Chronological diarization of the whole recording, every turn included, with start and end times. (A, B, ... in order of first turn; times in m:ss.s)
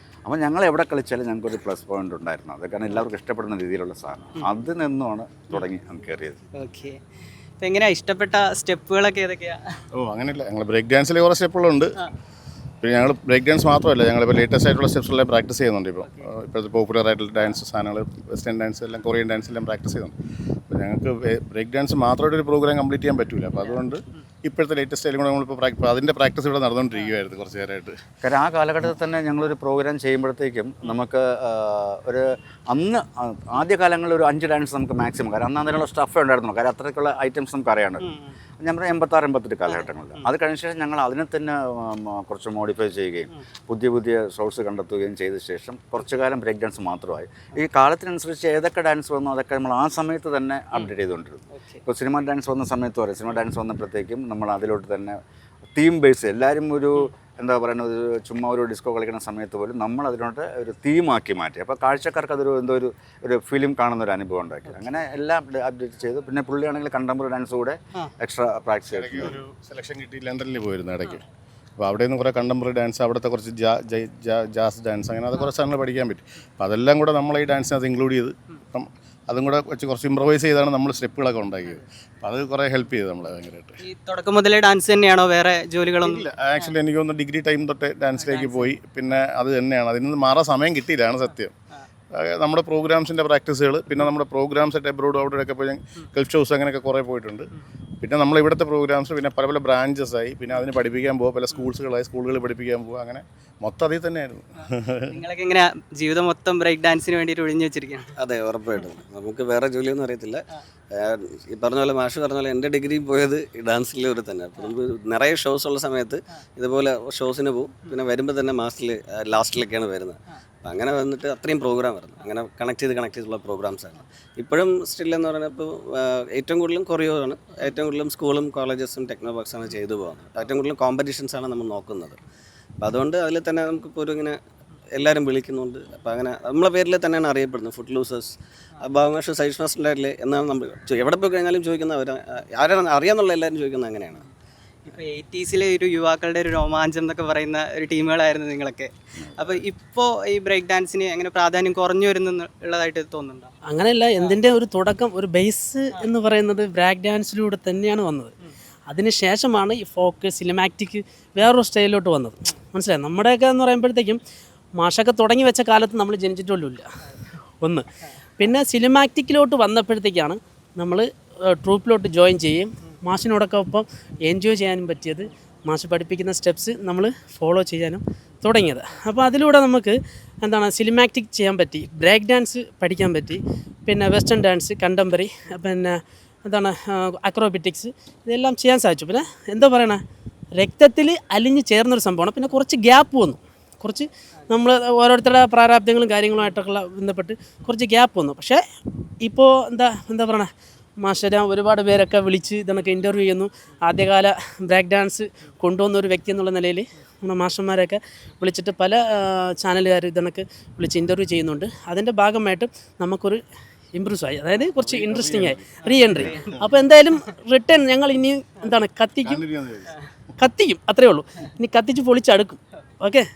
0:00.3-0:06.4 A
0:06.6-0:07.0 B
0:07.6-0:09.6 B
0:10.0-0:11.9 C
0:12.8-0:20.1 C
0:20.7-0:27.9 C
0:28.2-0:38.0 A
0:38.0-0:38.4 B
0:38.6-0:55.2 A
0:39.7-0:40.2 B
0:51.6-0:51.8 B
0:55.8-1:09.4 A
1:08.9-1:11.2 C
1:11.8-1:23.8 C
1:23.8-1:26.2 B
1:26.0-1:31.5 C
1:28.2-1:28.7 B
1:32.2-1:37.5 C
1:38.0-1:45.2 C
1:45.1-1:48.1 B
1:48.2-2:12.2 D
2:12.8-2:14.4 D
2:14.9-2:24.2 D
2:24.9-2:33.5 B
2:29.2-2:29.6 A
2:33.7-2:38.3 E
2:38.9-2:44.2 E
2:44.8-2:46.9 E
2:48.4-3:10.0 E
3:10.6-3:18.6 E
3:19.2-3:20.5 E
3:21.0-3:33.4 E
3:34.0-3:39.4 E
3:34.9-3:36.7 C
3:39.2-3:39.9 C
3:40.4-3:43.2 E